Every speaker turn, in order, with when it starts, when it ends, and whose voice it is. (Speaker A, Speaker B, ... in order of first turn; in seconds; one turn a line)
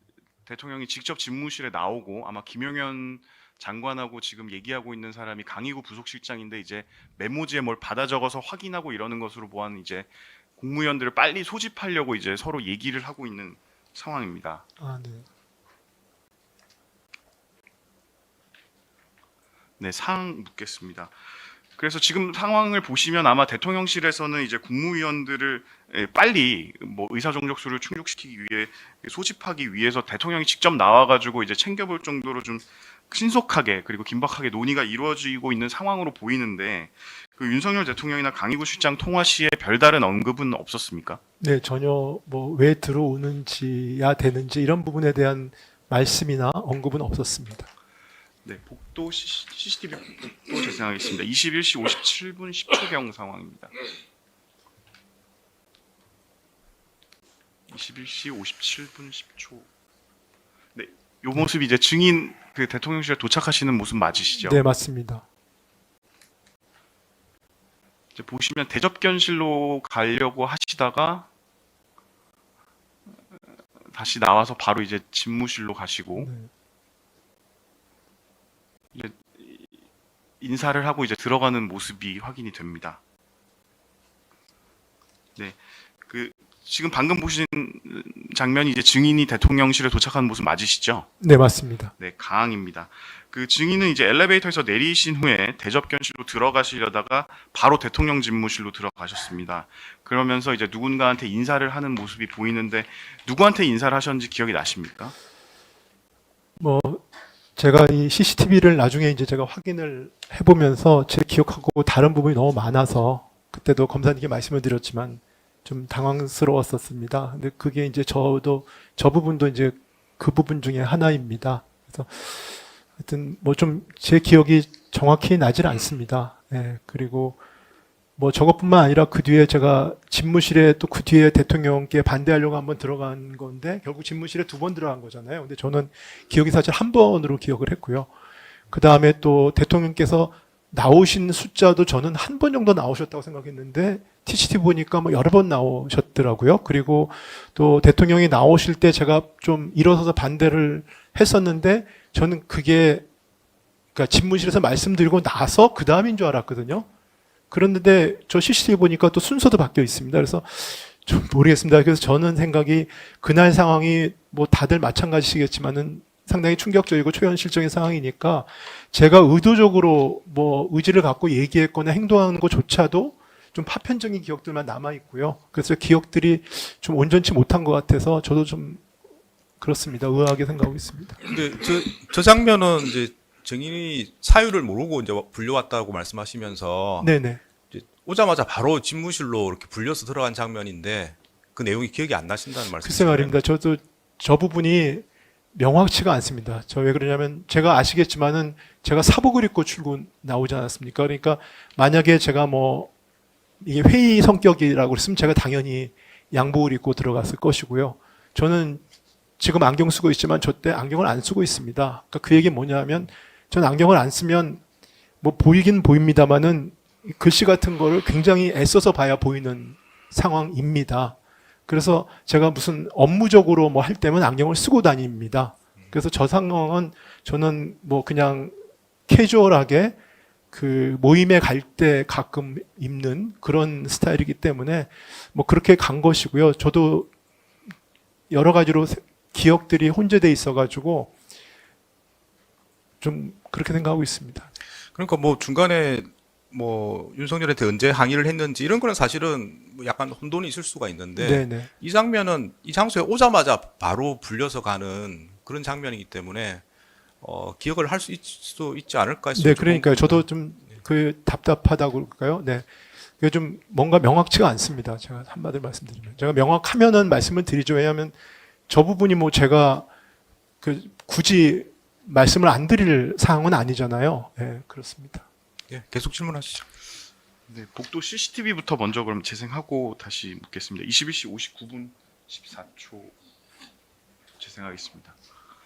Speaker A: 0.5-14.6
Speaker B: 14.8-15.3
Speaker A: 19.8-41.2
Speaker B: 41.4-47.7
Speaker A: 48.5-53.7
Speaker A: 57.7-59.7
Speaker A: 60.8-64.6
Speaker B: 64.4-65.2
Speaker A: 68.1-71.3
Speaker A: 73.9-76.3
Speaker B: 76.2-76.5
Speaker A: 78.9-79.7
Speaker A: 80.4-83.0
Speaker A: 85.3-91.1
Speaker B: 91.2-91.9
Speaker A: 92.0-105.1
Speaker B: 106.6-107.0
Speaker B: 107.5-127.4
Speaker B: 128.2-138.1
Speaker B: 138.7-153.1
Speaker B: 153.9-156.9
Speaker B: 157.5-178.8
Speaker B: 179.6-181.2
Speaker C: 181.2-187.1
Speaker B: 187.0-187.4
Speaker C: 187.7-193.4
Speaker B: 192.8-202.9
Speaker B: 203.6-208.8
Speaker B: 209.4-214.6
Speaker B: 215.2-221.2
Speaker B: 221.7-228.6
Speaker B: 229.1-230.0
Speaker B: 230.5-237.1
Speaker B: 238.3-241.1
Speaker B: 243.0-244.5
Speaker C: 244.9-256.6
Speaker B: 251.2-251.7
Speaker C: 257.2-260.8
Speaker B: 259.3-262.6
Speaker B: 263.2-268.1
Speaker B: 268.7-269.9
Speaker B: 270.6-275.2
Speaker C: 275.7-276.6
Speaker A: 277.5-283.1
Speaker A: 284.4-285.1